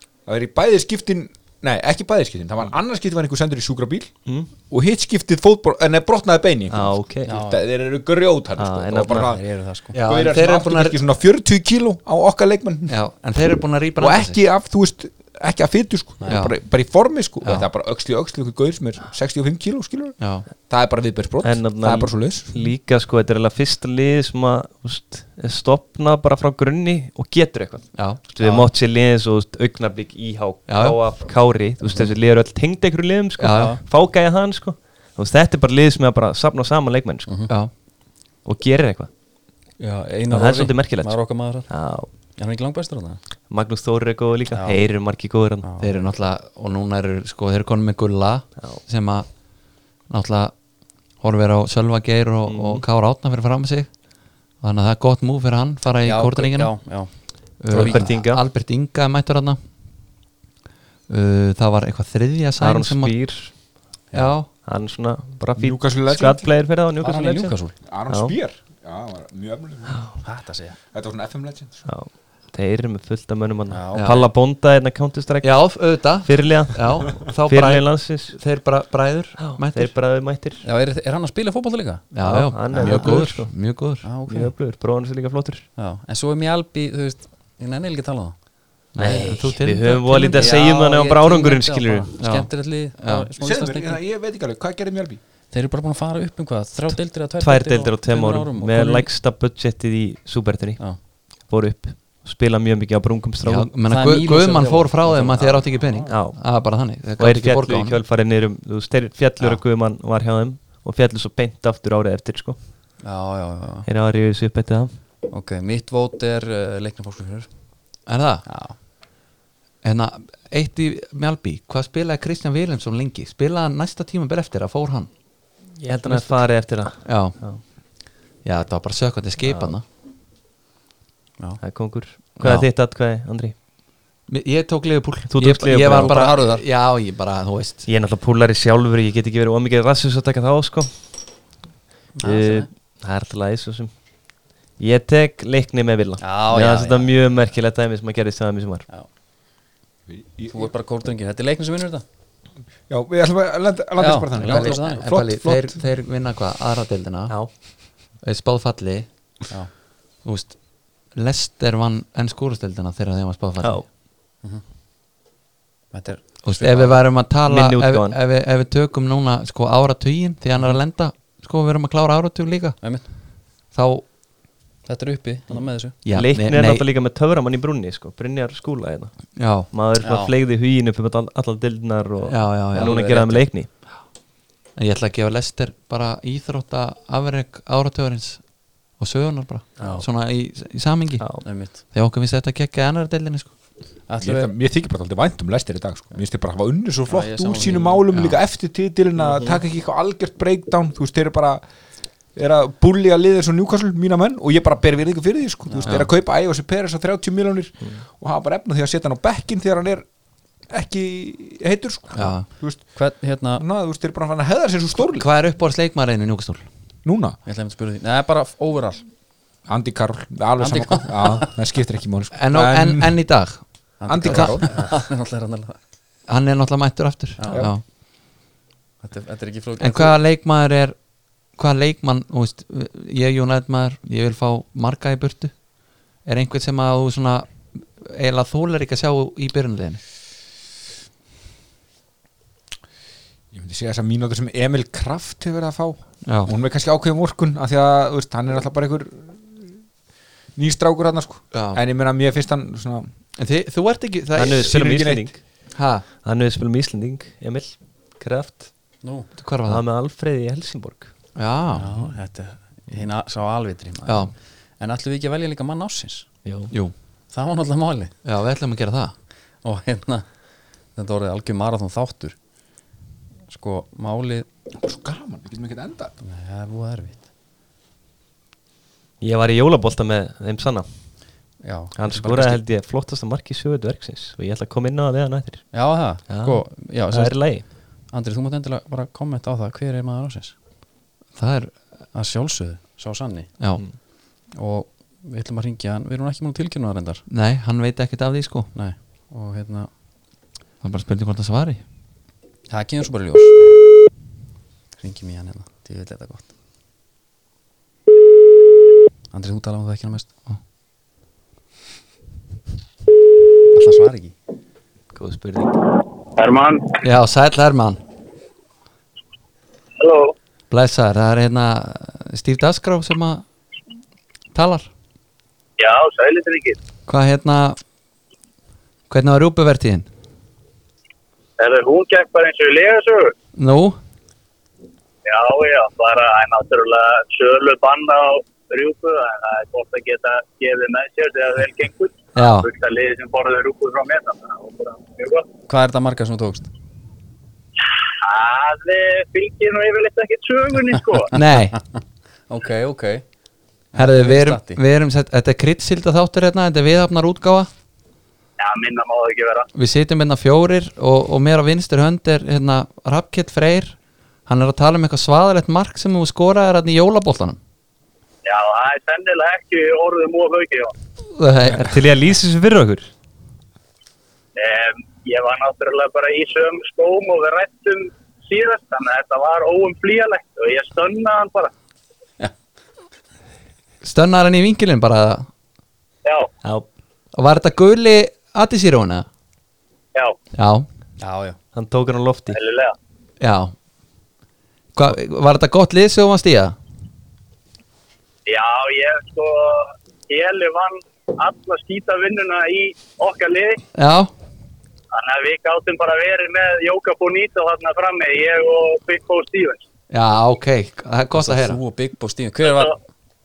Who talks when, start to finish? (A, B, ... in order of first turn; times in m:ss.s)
0:00.3-0:09.4 A
0:04.3-0:04.5 B
0:06.7-0:07.4 B
0:07.3-0:07.6 C
0:08.6-0:09.4 B
0:09.1-0:10.0 C
0:09.9-0:11.0 D
0:10.0-0:13.0 A
0:12.9-0:14.4 D
0:14.0-0:22.6 A
0:16.3-0:16.6 D
0:20.2-0:20.5 D
0:21.4-0:37.3 B
0:28.0-0:28.2 D
0:30.7-0:31.0 D
0:31.9-0:32.1 C
0:33.4-0:33.7 D
0:33.5-0:33.8 C
0:37.3-0:37.5 C
0:38.4-0:39.1 B
0:39.8-0:41.7 C
0:40.3-0:42.1 B
0:42.4-0:43.2 C
0:43.5-0:45.7 B
0:44.5-0:44.8 C
0:45.6-0:46.1 C
0:45.8-0:49.3 D
0:50.1-0:50.5 D
0:51.2-0:53.9 D
0:52.5-0:52.8 B
0:54.6-0:56.8 D
0:56.0-0:58.1 C
0:57.6-0:59.6 D
0:57.7-0:58.4 B
1:01.1-1:03.2 D
1:02.6-1:03.6 B
1:04.1-1:04.5 D
1:04.6-1:07.6 B
1:05.6-1:06.5 A
1:07.0-1:07.8 C
1:07.9-1:10.2 A
1:08.1-1:08.4 B
1:09.9-1:10.2 B
1:10.2-1:10.8 C
1:10.9-1:11.9 A
1:11.9-1:18.4 B
1:13.7-1:14.3 C
1:15.4-1:19.9 D
1:19.4-1:20.6 B
1:20.6-1:22.1 C
1:22.1-1:24.1 D
1:22.2-1:23.5 B
1:22.7-1:23.1 C
1:24.0-1:24.5 C
1:24.3-1:25.7 B
1:25.8-1:28.4 C
1:29.0-1:30.6 D
1:29.0-1:32.1 B
1:30.3-1:34.0 C
1:32.2-1:32.5 D
1:33.4-1:35.2 A
1:35.5-1:39.1 C
1:37.4-1:43.7 B
1:43.4-1:48.0 D
1:43.9-1:45.8 C
1:46.1-1:46.4 B
1:47.2-1:52.6 B
1:53.0-1:53.9 C
1:53.8-1:54.9 B
1:55.3-1:57.5 C
1:58.1-1:58.4 D
1:58.4-1:58.8 C
1:59.8-2:05.1 D
2:05.8-2:07.6 B
2:06.0-2:07.8 D
2:08.4-2:09.8 D
2:09.4-2:09.7 B
2:11.6-2:13.5 B
2:12.4-2:12.7 D
2:14.3-2:17.8 D
2:15.3-2:16.2 B
2:15.9-2:16.6 C
2:17.9-2:20.9 B
2:22.2-2:22.7 C
2:22.2-2:23.9 B
2:24.8-2:28.9 B
2:26.2-2:27.1 C
2:30.1-2:30.7 A
2:30.5-2:32.0 C
2:32.9-2:35.8 A
2:34.0-2:35.0 C
2:34.4-2:37.6 D
2:38.2-2:39.1 D
2:40.2-2:40.6 D
2:41.1-2:43.9 D
2:45.9-2:47.0 C
2:46.4-2:52.8 D
2:47.5-2:48.2 B
2:52.8-2:53.0 C
2:53.7-2:54.0 D
2:54.8-2:56.0 C
2:56.0-2:56.8 D
2:56.1-3:03.7 B
2:59.4-2:59.7 D
3:00.0-3:00.3 C
3:02.3-3:03.2 D
3:02.7-3:03.5 C
3:04.8-3:08.4 D
3:09.0-3:13.5 D
3:09.8-3:10.1 C
3:11.4-3:11.8 C
3:14.1-3:14.5 C
3:14.2-3:21.6 A
3:17.1-3:18.0 C
3:18.1-3:18.4 D
3:19.2-3:19.6 B
3:22.4-3:30.1 A
3:25.7-3:26.0 C
3:30.7-3:32.9 A
3:32.1-3:32.5 D
3:32.9-3:33.6 C
3:33.6-3:35.3 A
3:35.0-3:36.7 D
3:37.0-3:37.4 A
3:37.4-3:39.1 C
3:39.7-3:43.2 A
3:40.6-3:41.5 C
3:42.3-3:43.6 D
3:44.0-3:45.8 C
3:44.1-3:44.9 A
3:44.2-3:44.6 D
3:46.3-3:47.8 D
3:47.4-3:47.7 C
3:49.0-3:50.1 C
3:49.8-3:51.0 D
3:51.5-3:55.5 D
3:56.3-4:00.0 D
4:03.5-4:09.8 A
4:06.2-4:06.5 D
4:10.6-4:13.1 A
4:11.5-4:11.8 D
4:13.4-4:15.0 D
4:14.4-4:15.4 B
4:14.6-4:15.3 A
4:15.8-4:16.0 D
4:16.2-4:18.7 B
4:19.0-4:19.3 C
4:19.4-4:19.8 D
4:19.7-4:21.1 B
4:21.4-4:22.0 D
4:21.7-4:26.3 C
4:26.4-4:26.7 B
4:27.3-4:28.1 C
4:28.2-4:29.1 D
4:29.6-4:30.3 C
4:31.0-4:32.4 C
4:33.5-4:34.5 C
4:34.8-4:36.2 A
4:36.2-4:37.2 C
4:39.2-4:40.9 B
4:41.6-4:42.6 C
4:42.0-4:45.7 B
4:45.7-4:47.5 C
4:46.3-4:47.6 B
4:48.1-4:50.6 C
4:51.4-4:51.8 D
4:52.1-4:53.5 C
4:54.5-4:57.2 C
4:57.3-4:58.7 D
4:58.8-4:59.9 C
5:00.8-5:01.8 D
5:02.7-5:03.6 C
5:05.0-5:06.5 C
5:09.3-5:10.3 C
5:13.7-5:14.4 C
5:15.1-5:15.7 B
5:16.4-5:16.9 E
5:17.0-5:18.0 D
5:20.0-5:20.4 E
5:20.7-5:23.4 D
5:24.5-5:24.9 D
5:25.8-5:26.8 E
5:27.1-5:27.8 D
5:29.1-5:30.1 D
5:31.6-5:33.4 E
5:33.6-5:34.0 D
5:35.2-5:45.5 E
5:42.4-5:42.7 D
5:45.7-5:46.7 C
5:48.0-5:51.4 E
5:51.3-5:51.8 D
5:52.5-5:53.2 C
5:53.9-5:54.8 C
5:54.0-5:57.7 D
5:58.6-5:59.7 E
5:59.8-6:04.0 D
6:04.5-6:07.6 D
6:08.4-6:11.0 E
6:11.4-6:11.9 D
6:11.7-6:13.1 B
6:14.6-6:21.7 E
6:24.0-6:25.5 D
6:26.2-6:26.5 E
6:27.3-6:29.3 D
6:30.5-6:30.9 D
6:31.2-6:31.6 C
6:31.7-6:32.6 B
6:32.5-6:33.0 E
6:33.4-6:33.7 D
6:35.0-6:36.8 D
6:38.5-6:43.8 E
6:44.0-6:44.3 D
6:45.1-6:49.8 E
6:50.1-6:51.8 D
6:51.4-6:52.9 C
6:52.6-6:53.0 E